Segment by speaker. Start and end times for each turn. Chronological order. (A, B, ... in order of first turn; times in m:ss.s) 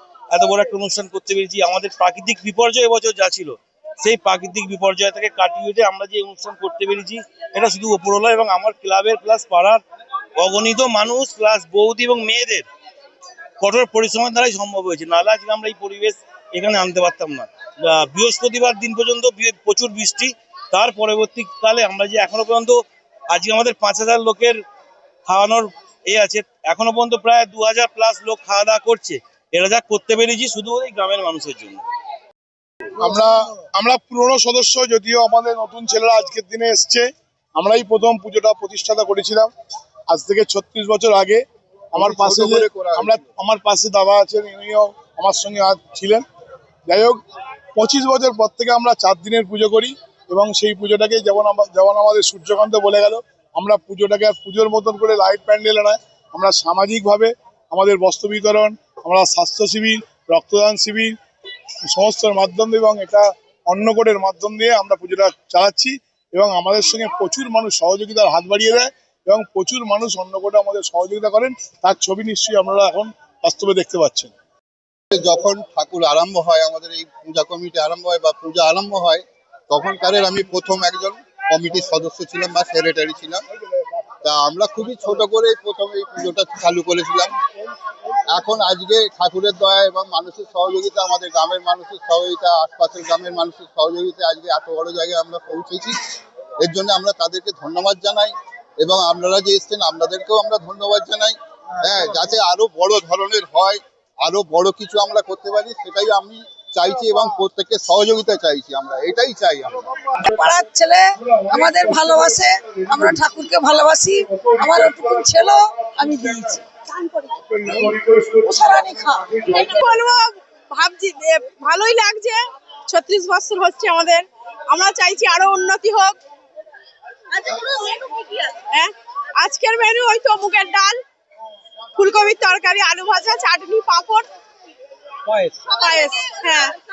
0:00.3-0:09.8 A
0:10.4-0:12.7 A
0:13.6-0:22.8 A
0:23.3-0:24.6 A
0:25.3-0:31.8 A
0:33.0-0:39.5 B
0:40.1-0:41.4 B
0:41.9-0:43.2 C
0:42.0-0:46.2 B
0:46.9-0:47.2 B
0:47.8-1:01.1 B
1:01.9-1:14.3 B
1:15.1-1:23.4 C
1:24.2-1:27.4 C
1:28.3-1:36.0 C
1:36.6-1:49.9 C
1:50.2-1:59.2 D
1:51.5-1:53.1 B
1:57.6-1:58.5 B
1:59.4-1:59.7 B
1:59.8-2:00.2 E
2:00.8-2:02.4 E
2:02.9-2:06.1 E
2:07.5-2:08.0 E
2:09.4-2:10.9 E
2:12.4-2:14.2 E
2:15.3-2:15.9 A